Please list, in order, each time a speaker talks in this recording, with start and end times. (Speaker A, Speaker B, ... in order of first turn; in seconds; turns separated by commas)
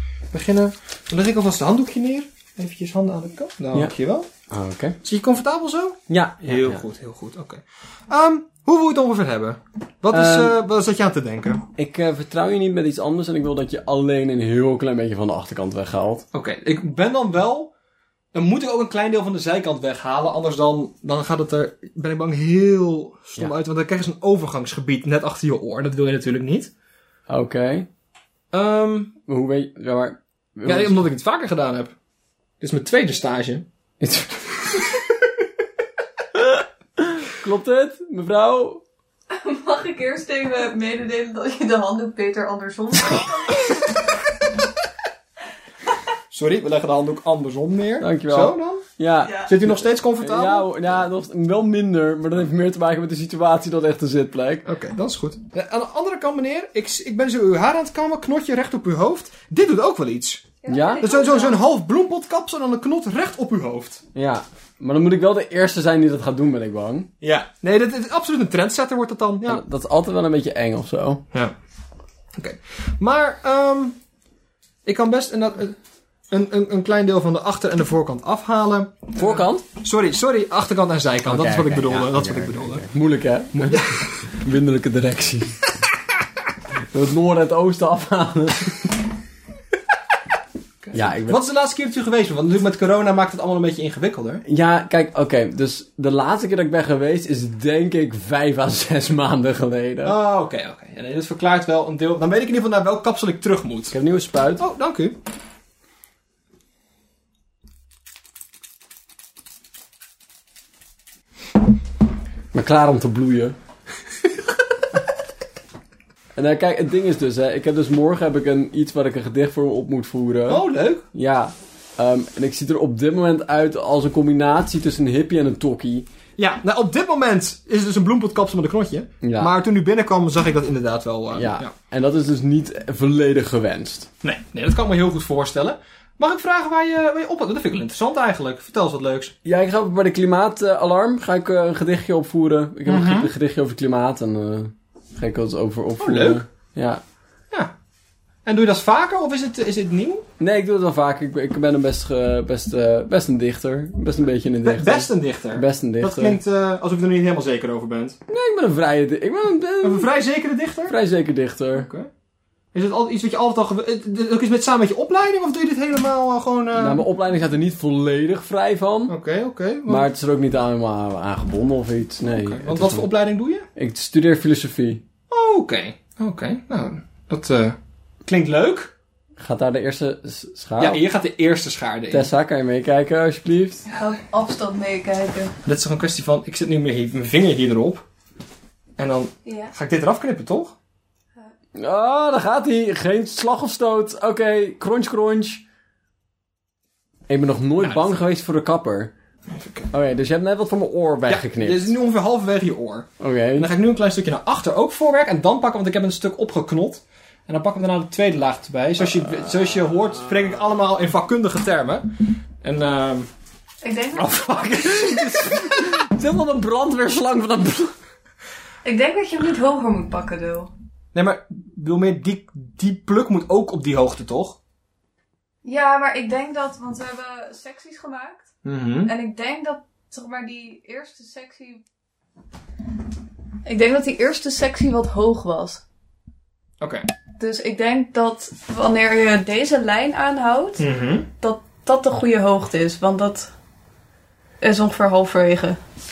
Speaker A: 0.3-4.3, Speaker B: 4.5-5.0, Speaker A: 5.0-11.7, Speaker B: 6.1-6.8, Speaker B: 10.1-10.6, Speaker B: 11.8-16.3, Speaker A: 16.3-17.7, Speaker A: 18.3-26.7, Speaker B: 27.3-27.9, Speaker A: 28.5-29.1, Speaker B: 29.3-31.0, Speaker A: 30.6-31.9, Speaker A: 32.6-33.7, Speaker B: 34.0-34.4, Speaker B: 37.0-38.8, Speaker C: 39.3-43.8, Speaker A: 46.3-48.9, Speaker B: 48.0-54.7, Speaker A: 49.4-50.7, Speaker A: 54.6-64.0, Speaker C: 60.6-61.6, Speaker B: 60.7-61.1, Speaker B: 64.2-67.1, Speaker A: 67.2-69.6, Speaker B: 69.5-71.2, Speaker A: 72.4-74.0, Speaker A: 74.8-75.8, Speaker A: 76.3-82.8, Speaker B: 79.2-79.6, Speaker B: 81.3-85.6, Speaker A: 83.5-84.3, Speaker B: 86.9-89.0, Speaker A: 90.8-94.4, Speaker B: 90.9-91.4, Speaker B: 94.5-100.2, Speaker A: 100.0-104.0, Speaker B: 103.9-104.6, Speaker A: 104.6-105.2, Speaker B: 112.5-113.6, Speaker B: 116.4-126.1, Speaker A: 120.5-121.0, Speaker A: 126.4-131.7, Speaker B: 129.2-129.5, Speaker B: 131.3-134.1, Speaker A: 134.2-139.3, Speaker B: 139.4-147.0, Speaker A: 142.9-143.3, Speaker A: 146.0-146.4, Speaker A: 148.4-150.2, Speaker B: 150.4-156.4, Speaker A: 154.6-158.2, Speaker B: 158.3-160.2, Speaker A: 159.8-161.0, Speaker B: 160.9-161.9, Speaker A: 161.8-162.1, Speaker A: 162.7-167.0, Speaker B: 166.8-169.2, Speaker A: 169.1-170.1, Speaker B: 169.9-173.1, Speaker A: 172.3-173.7, Speaker B: 173.8-175.0, Speaker A: 175.3-178.9, Speaker B: 179.4-181.0, Speaker A: 180.8-182.3, Speaker B: 182.1-183.8, Speaker C: 183.9-185.5, Speaker A: 185.6-188.1, Speaker A: 189.0-190.8, Speaker C: 189.5-189.7, Speaker B: 191.8-195.6, Speaker B: 197.3-199.1, Speaker A: 197.8-198.2, Speaker A: 199.5-199.9, Speaker B: 199.9-201.9, Speaker A: 201.3-213.3, Speaker B: 203.2-203.7, Speaker B: 209.2-210.4, Speaker C: 213.8-214.4, Speaker A: 214.1-215.9, Speaker B: 214.7-217.9, Speaker C: 218.8-220.7, Speaker A: 221.1-224.6, Speaker C: 225.6-228.5, Speaker A: 228.6-229.1, Speaker C: 229.1-231.8, Speaker C: 233.7-235.8, Speaker A: 236.8-237.1, Speaker C: 237.4-240.9, Speaker A: 240.8-241.3, Speaker C: 241.4-243.5, Speaker C: 244.6-245.8